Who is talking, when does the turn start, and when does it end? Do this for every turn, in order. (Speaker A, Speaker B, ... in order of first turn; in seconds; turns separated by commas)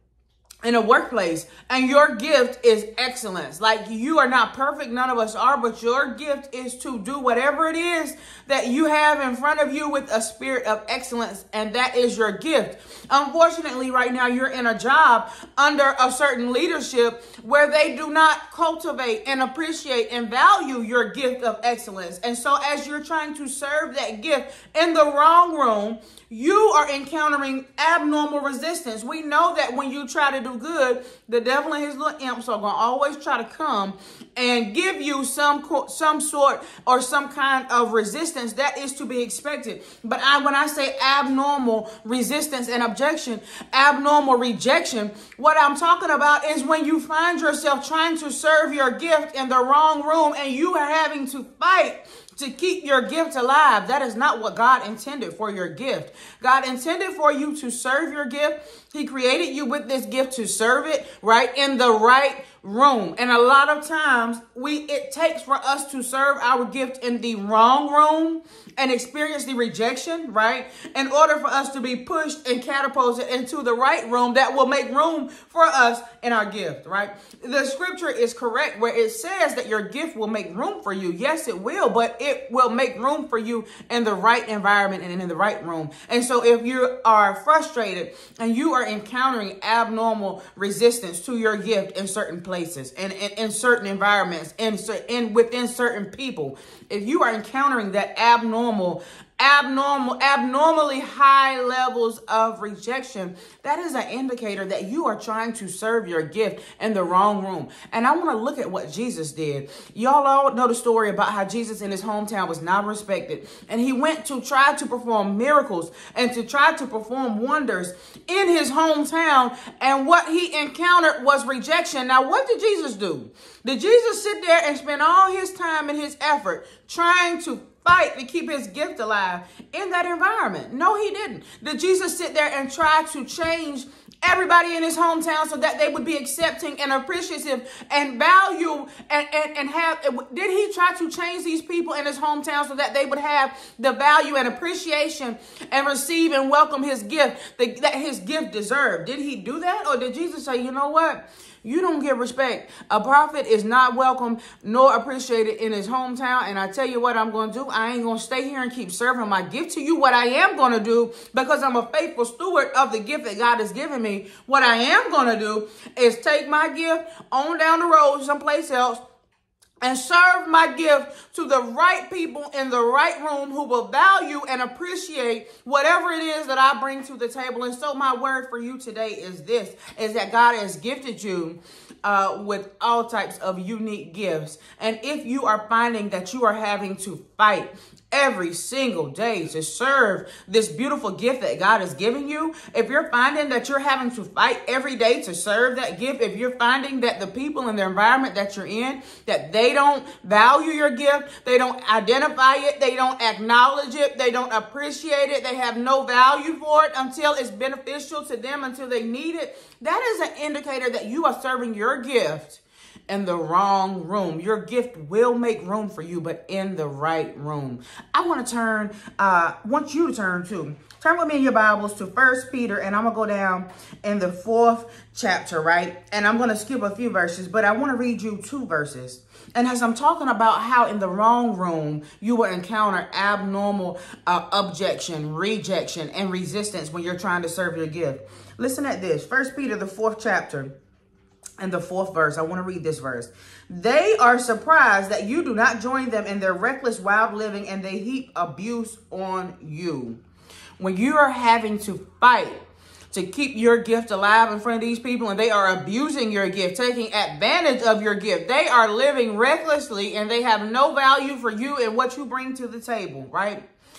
Speaker A: 0.6-169.0, Speaker A: 169.8-240.7, Speaker A: 241.6-250.2, Speaker A: 250.8-263.6